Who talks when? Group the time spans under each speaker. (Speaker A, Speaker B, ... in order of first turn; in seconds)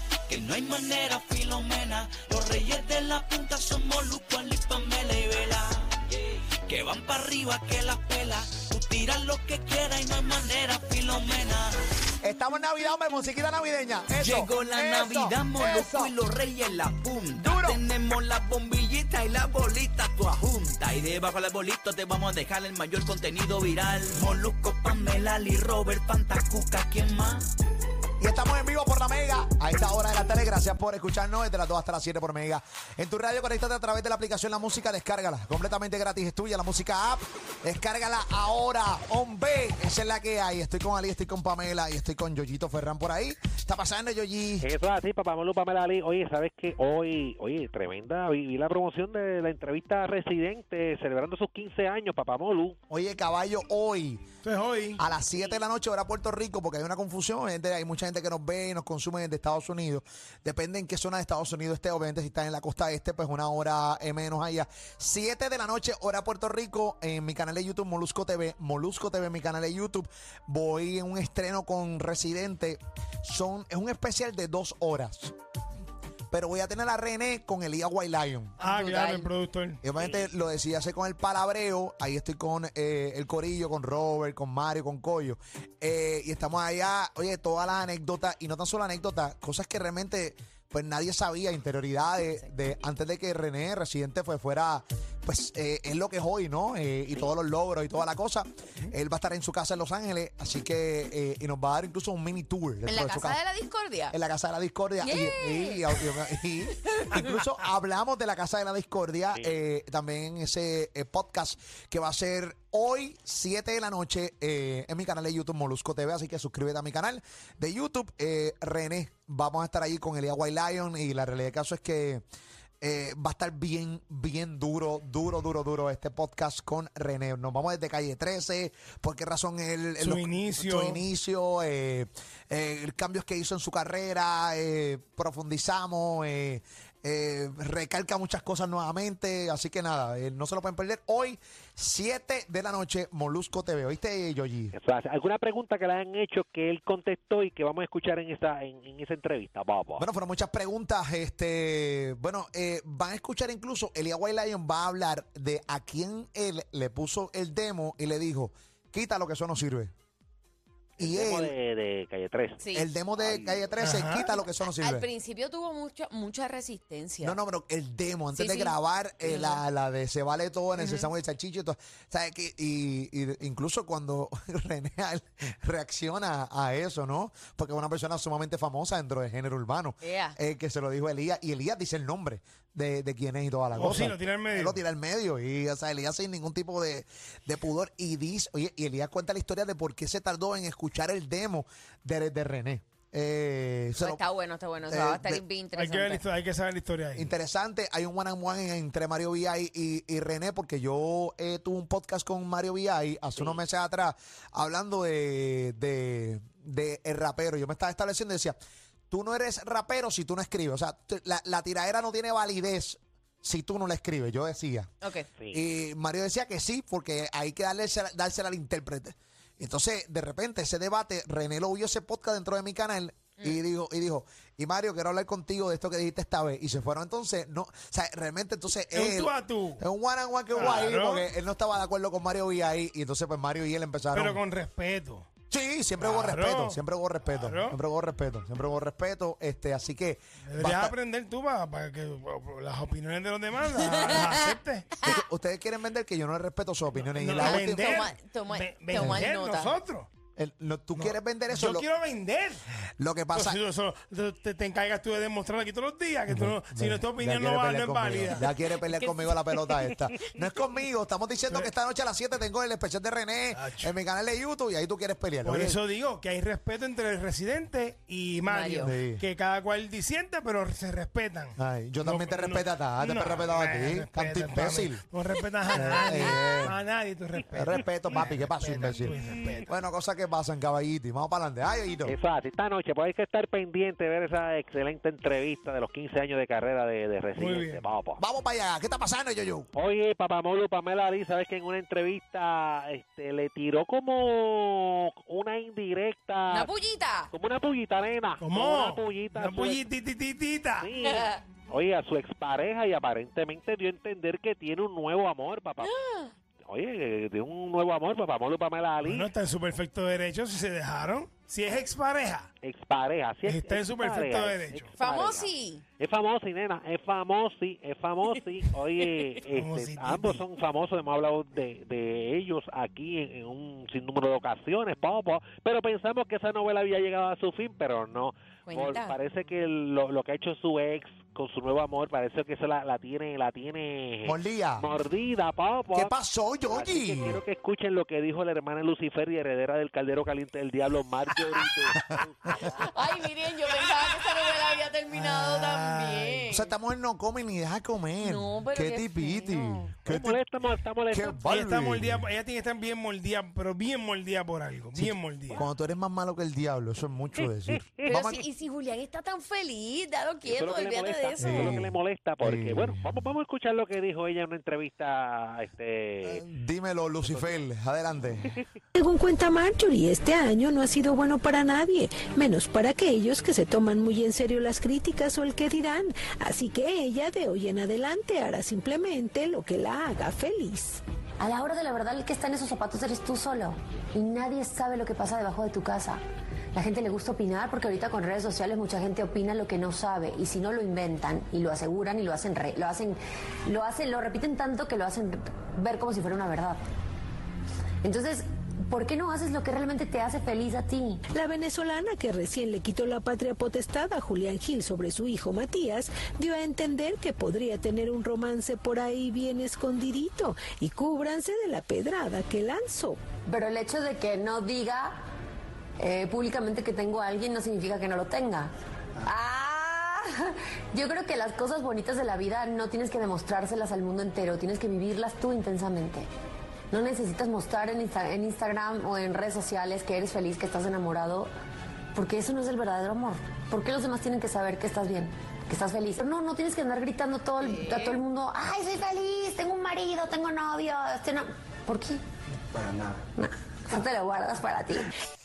Speaker A: 0.3-11.8, 14.2-27.5
Speaker B: 12.2-16.1, 17.4-17.8, 28.2-44.7, 52.9-54.2, 55.0-75.3, 76.3-78.6, 79.8-103.4, 104.1-122.2, 122.8-144.8, 150.0-159.9, 161.0-161.6, 162.7-165.1, 167.2-194.2, 194.9-195.4, 197.2-208.6, 209.1-214.9, 215.5-234.4, 235.5-241.0, 245.0-248.1, 248.9-249.3, 250.4-251.8, 253.0-253.6, 256.3-265.8, 268.8-269.2, 271.6-275.1, 275.7-276.8, 277.5-282.1, 288.2-289.7, 334.2-334.9, 335.9-337.4, 342.0-342.5, 346.5-350.4, 351.1-352.2, 354.9-358.5, 361.4-363.1, 366.2-368.6
Speaker C: 44.6-52.8, 80.0-80.3, 109.3-109.6, 144.7-150.1, 161.0-163.7, 215.4-215.6, 282.1-288.2, 289.8-296.7, 297.3-299.8, 300.8-306.0, 306.7-309.3, 312.6-336.1, 336.7-342.6, 350.1-351.4, 357.4-358.1, 360.4-366.4, 367.3-367.6
Speaker D: 54.4-55.0, 78.6-79.8, 130.0-131.0, 163.8-164.3, 183.7-184.8, 195.8-197.3, 228.9-229.8, 230.5-231.3, 234.1-235.3, 236.0-237.8, 240.5-244.9, 246.9-250.1, 251.0-252.6, 253.3-258.5, 263.5-263.9, 265.4-279.7, 287.4-287.9, 298.4-300.9, 309.0-312.5, 313.4-314.9, 319.5-320.4, 345.1-346.4, 351.4-355.6
Speaker E: 78.6-79.3, 102.9-104.2, 105.0-106.1, 162.6-162.9, 164.6-167.4, 168.3-169.6, 170.8-171.1, 180.0-180.4, 194.0-196.2, 215.0-215.3, 247.4-249.8, 258.7-259.9, 268.5-268.9, 296.5-297.3, 301.0-301.4, 305.8-306.3, 315.0-315.8, 328.7-329.2, 342.5-346.7, 348.2-349.9, 358.1-361.8, 437.6-438.2
Speaker F: 369.0-381.0, 401.3-413.2
Speaker G: 381.4-386.2, 386.7-396.8, 398.0-401.2, 413.5-415.2, 416.0-418.7, 419.2-426.3, 426.9-431.5, 432.1-442.2, 443.3-445.1